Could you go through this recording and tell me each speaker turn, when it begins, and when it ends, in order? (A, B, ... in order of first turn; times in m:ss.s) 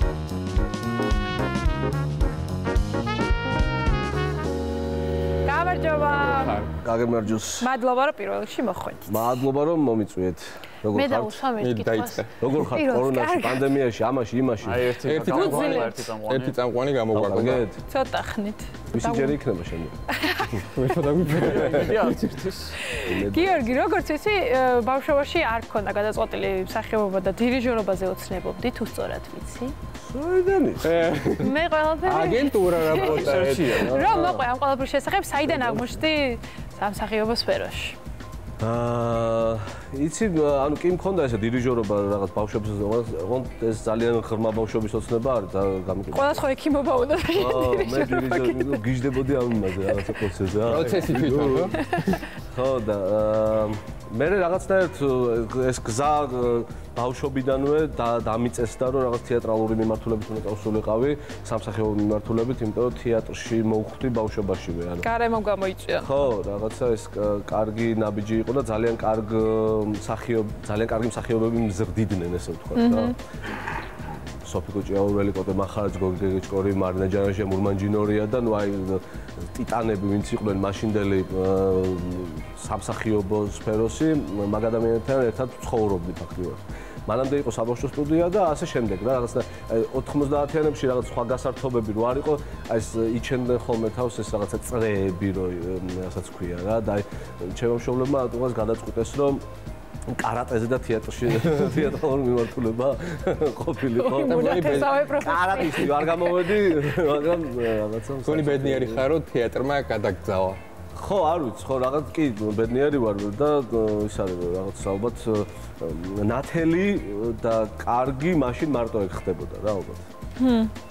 0:05.4-0:06.6 A
0:06.1-0:06.7 B
0:06.8-0:07.7 C
0:07.6-0:09.4 A
0:09.1-0:11.4 C
0:10.9-0:13.7 A
0:11.6-0:12.5 B
0:12.4-0:14.9 C
0:14.6-0:16.6 D
0:15.0-0:17.6 B
0:15.3-0:16.0 A
0:17.1-0:17.8 C
0:17.9-0:19.4 A
0:18.9-0:20.0 C
0:20.1-0:20.5 A
0:20.7-0:22.2 B
0:21.3-0:22.8 D
0:22.8-0:29.8 A
0:23.0-0:23.7 C
0:30.0-0:31.3 C
0:30.8-0:34.4 B
0:31.4-0:38.0 A
0:32.9-0:34.0 D
0:35.5-0:35.9 C
0:38.6-0:46.4 C
0:46.1-0:48.8 A
0:47.3-0:51.8 C
0:49.9-0:50.2 A
0:50.6-0:52.2 B
0:52.3-1:05.1 C
1:05.0-1:06.3 A
1:05.9-1:13.2 C
1:12.8-1:13.2 A
1:14.4-1:39.4 C
1:40.1-1:49.0 C
1:44.0-1:46.4 A
1:44.2-1:44.9 B
1:48.2-1:50.6 B
1:51.0-2:00.1 C
2:00.4-2:00.7 A